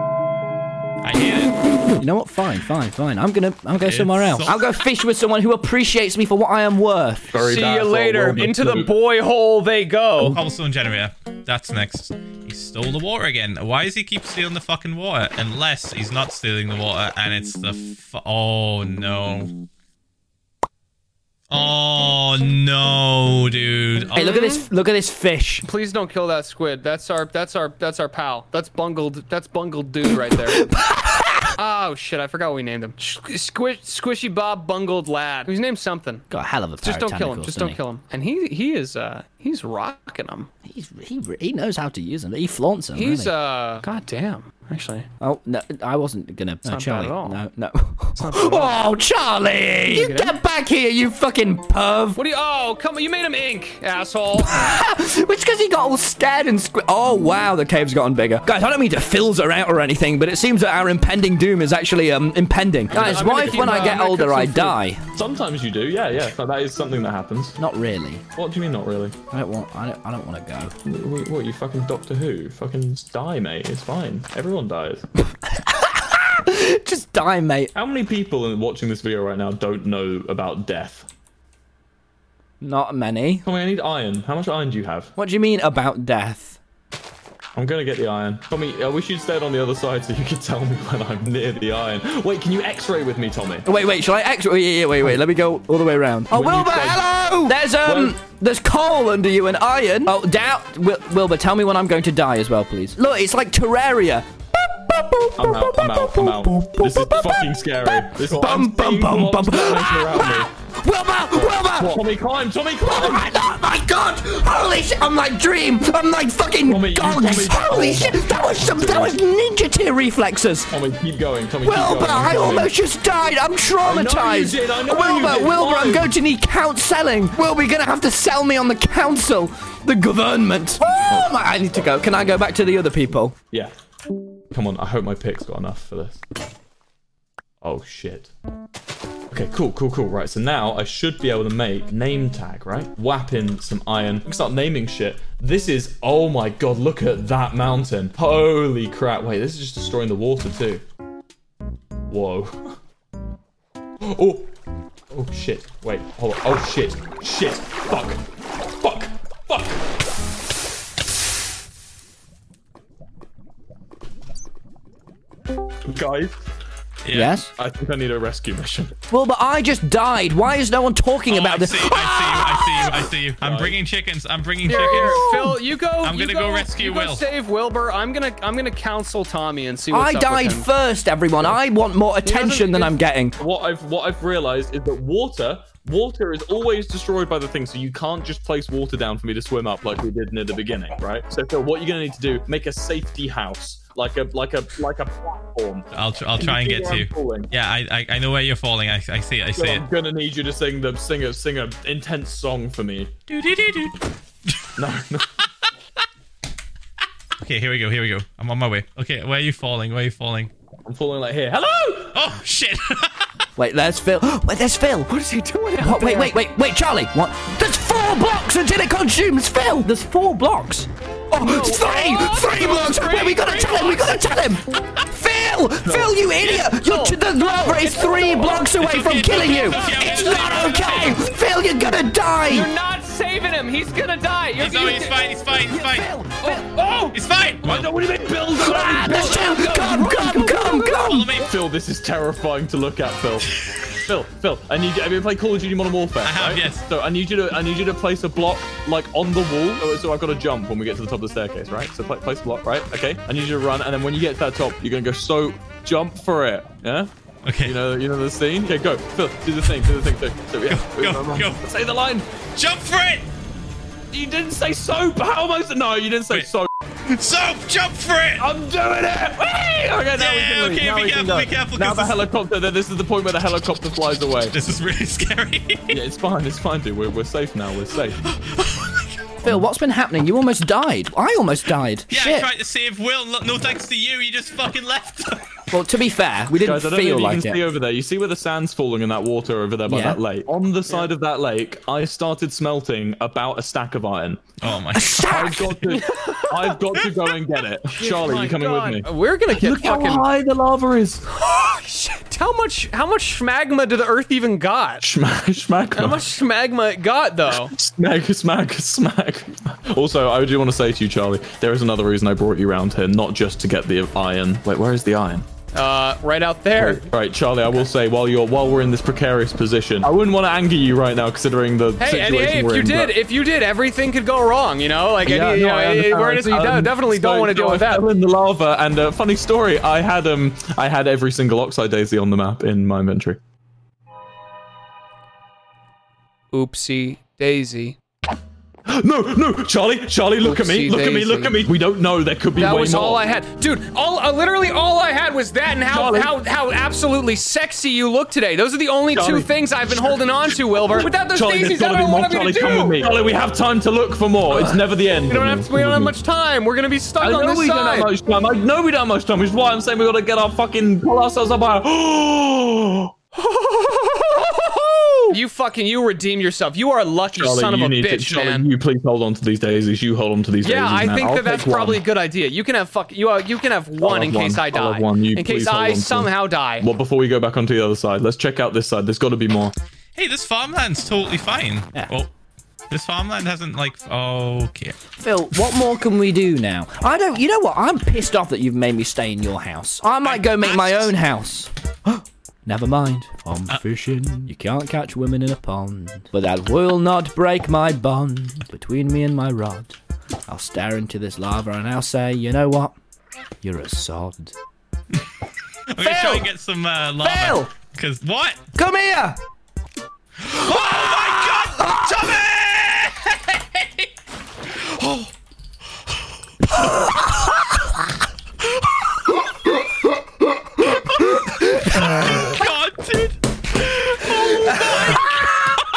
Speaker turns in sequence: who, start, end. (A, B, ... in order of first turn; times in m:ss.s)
0:01.0-0:01.8 A
0:01.9-0:07.3 B
0:03.8-0:04.6 A
0:07.3-0:08.9 C
0:07.4-0:10.4 D
0:10.3-0:19.5 A
0:21.5-0:24.4 A
0:24.2-0:25.7 B
0:24.2-0:24.7 D
0:25.6-0:30.7 D
0:30.3-0:31.5 B
0:31.6-0:36.3 D
0:36.3-0:37.8 B
0:36.8-0:40.5 D
0:40.6-0:43.3 B
0:42.9-0:45.1 D
0:45.2-0:52.2 B
0:46.6-0:47.4 D
0:48.2-0:48.8 D
0:49.9-0:50.4 D
0:52.2-0:54.8 D
0:54.4-1:05.0 B
1:02.9-1:04.0 C
1:02.9-1:04.8 D
1:05.2-1:07.6 C
1:07.6-1:08.2 B
1:08.4-1:09.2 C
1:09.3-1:10.7 B
1:10.8-1:15.1 C
1:15.5-1:17.7 B
1:17.8-1:21.1 C
1:22.6-1:23.4 B
1:23.4-1:25.1 C
1:25.2-1:26.6 B
1:27.6-1:33.7 C
1:33.6-1:47.5 B
1:36.3-1:38.2 C
1:45.4-1:50.5 C
1:48.0-1:52.0 B
1:51.3-1:53.4 C
1:52.8-2:00.7 B
1:56.6-1:59.2 C
2:00.7-2:02.7 C
2:01.6-2:13.4 B
2:03.8-2:06.2 C
2:11.1-2:11.6 C
2:14.5-2:16.2 C
2:17.6-2:18.3 C
2:19.3-2:30.8 C
2:32.1-2:32.8 C
2:34.0-2:34.5 C
2:35.1-2:38.2 C
2:38.8-2:39.9 C
2:45.8-2:46.4 C
2:47.0-2:47.4 A
2:47.1-2:47.5 B
2:47.6-2:49.0 C
2:49.1-2:53.0 B
2:51.3-2:57.2 A
2:53.4-2:53.8 C
2:54.7-3:00.7 D
2:54.8-2:55.6 B
2:59.9-3:03.4 B
3:02.2-3:03.0 D
3:03.4-3:17.5 C
3:15.9-3:19.8 A
3:19.6-3:23.1 C
3:23.3-3:24.7 A
3:24.8-3:25.3 C
3:27.4-3:30.5 A
3:30.8-3:32.2 C
3:32.1-3:33.3 A
3:33.6-3:35.1 B
3:35.1-3:36.4 D
3:35.8-3:52.7 B
3:41.3-3:44.4 D
3:45.8-3:46.2 C
3:45.9-3:48.7 D
3:48.6-3:51.2 A
3:49.3-3:51.2 D
3:52.5-3:55.2 D
3:54.6-3:56.1 A
3:55.7-3:56.6 B
3:56.4-3:57.2 D
3:57.1-3:57.9 A
3:57.6-4:00.2 C
3:58.6-4:01.4 B
3:58.7-4:00.9 D
4:00.9-4:01.6 A
4:01.4-4:17.1 C
4:06.2-4:06.9 A
4:17.4-4:17.8 A
4:17.6-4:22.3 C
4:20.7-4:21.6 A
4:22.5-4:23.3 A
4:24.1-4:26.7 C
4:27.1-4:28.5 A
4:28.4-4:34.6 C
4:30.2-4:32.2 A
4:34.5-4:36.0 A
4:35.9-4:38.2 C
4:38.3-4:39.1 A
4:39.4-4:42.5 B
4:42.1-4:45.6 A
4:45.7-4:47.6 B
4:46.6-4:54.4 C
4:49.9-4:50.2 B
4:54.6-4:55.9 A
4:54.9-4:56.0 B
4:55.2-5:01.3 C
4:55.9-4:56.8 D
4:58.0-5:00.3 D
5:01.3-5:05.1 D
5:05.0-5:06.3 C
5:06.0-5:07.7 D
5:07.7-5:15.5 C
5:15.7-5:17.0 D
5:16.8-5:23.2 C
5:22.0-5:28.1 D
5:25.2-5:33.4 C
5:36.5-5:38.0 D
5:38.9-5:43.3 C
5:40.4-5:41.6 D
5:42.6-5:53.4 D
5:45.9-5:46.4 C
5:49.1-5:50.2 C
5:50.8-5:56.2 C
5:54.5-5:58.1 D
5:57.2-6:03.1 C
6:03.4-6:04.8 D
6:05.3-6:08.7 D
6:07.3-6:12.0 C
6:10.6-6:16.9 D
6:14.0-6:19.7 C
6:20.2-6:22.3 A
6:22.9-6:25.0 A
6:25.2-6:40.0 B
6:30.2-6:31.1 A
6:40.5-6:42.9 B
6:43.6-6:44.5 B
6:45.9-6:48.6 A
6:46.0-6:46.5 B
6:47.2-6:47.7 B
6:48.8-6:49.4 B
6:50.5-6:52.4 B
6:50.5-6:53.4 A
6:54.8-6:55.3 A
6:56.9-6:57.2 B
7:00.9-7:02.6 B
7:01.8-7:05.4 A
7:04.2-7:05.5 B